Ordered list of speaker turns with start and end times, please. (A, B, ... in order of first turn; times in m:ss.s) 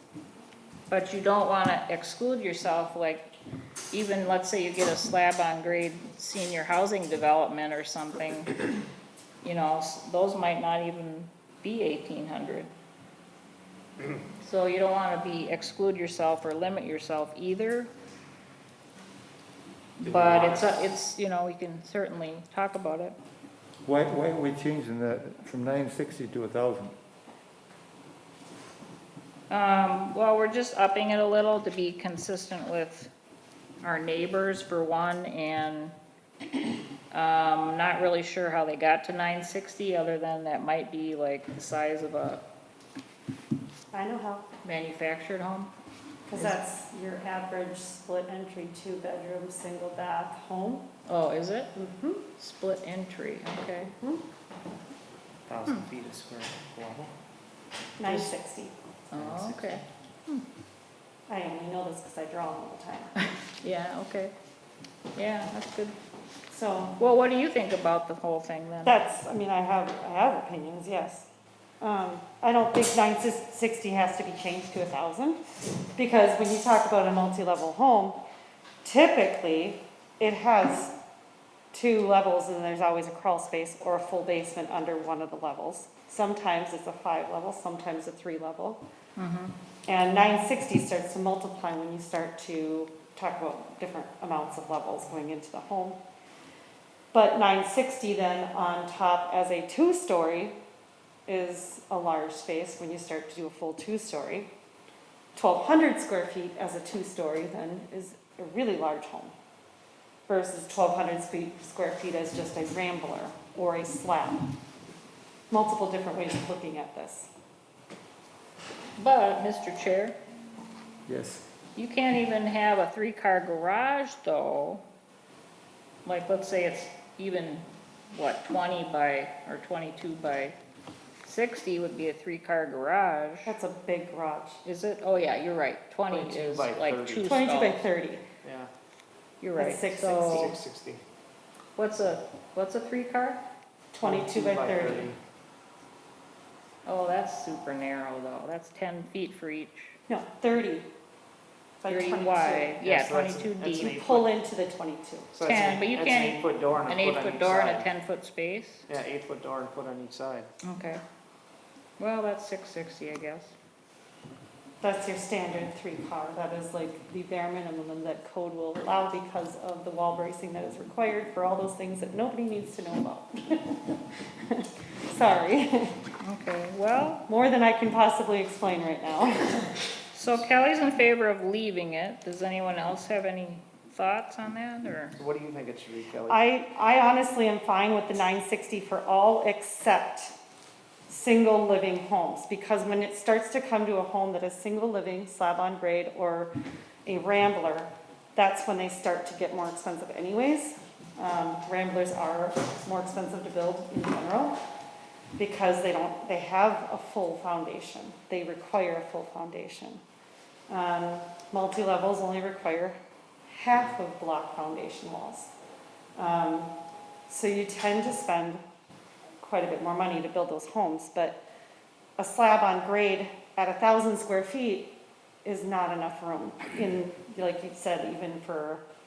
0:00.9-0:03.3 A
0:03.9-0:08.6 A
0:09.4-0:12.7 A
0:14.4-0:17.9 A
0:20.0-0:23.2 A
0:20.1-0:20.7 B
0:23.8-0:27.0 C
0:29.5-0:33.1 A
0:33.8-0:35.9 A
0:37.1-0:42.4 A
0:43.9-0:44.5 D
0:44.6-0:45.7 A
0:46.3-0:50.9 D
0:51.1-0:51.7 A
0:51.7-0:52.2 D
0:52.4-0:53.9 A
0:53.8-0:54.2 D
0:55.5-0:57.1 B
0:58.0-0:58.7 D
0:58.1-0:58.3 A
0:59.1-1:00.4 A
0:59.1-0:59.8 B
1:01.3-1:03.1 D
1:03.6-1:04.3 A
1:05.1-1:05.9 A
1:06.5-1:07.0 D
1:07.0-1:09.0 A
1:08.8-1:11.3 D
1:11.8-1:15.4 D
1:16.0-1:18.2 D
1:18.8-1:20.9 D
1:21.7-1:28.8 D
1:29.2-1:29.5 A
1:29.9-1:36.0 D
1:37.1-1:40.6 D
1:41.3-1:44.5 D
1:45.3-1:49.3 D
1:50.3-1:54.4 D
1:55.5-1:57.3 D
1:59.0-2:00.2 A
2:01.1-2:01.4 C
2:01.8-2:04.8 A
2:06.0-2:10.6 A
2:11.2-2:13.5 A
2:13.4-2:14.6 D
2:14.6-2:17.9 A
2:16.1-2:17.4 B
2:17.2-2:18.2 D
2:18.4-2:18.7 B
2:19.4-2:20.5 A
2:19.6-2:20.6 D
2:20.1-2:21.0 B
2:21.8-2:23.4 A
2:23.9-2:25.1 D
2:24.0-2:25.2 B
2:26.8-2:29.9 A
2:30.1-2:30.9 D
2:31.8-2:32.8 D
2:31.9-2:34.0 A
2:32.8-2:34.3 B
2:33.6-2:35.3 D
2:35.3-2:37.9 B
2:35.4-2:38.8 A
2:38.9-2:40.5 B
2:40.6-2:41.0 A
2:42.0-2:43.5 A
2:44.8-2:56.0 D
2:56.2-2:57.2 A
2:57.3-2:59.7 D
3:00.1-3:05.2 A
3:05.2-3:06.4 B
3:06.3-3:10.3 D
3:11.1-3:16.5 D
3:17.0-3:24.5 D
3:25.4-3:30.0 D
3:30.7-3:33.0 D
3:33.5-3:35.5 D
3:36.2-3:36.7 D
3:37.3-3:38.6 D
3:39.4-3:41.4 D
3:42.2-3:44.9 D
3:45.4-3:48.8 D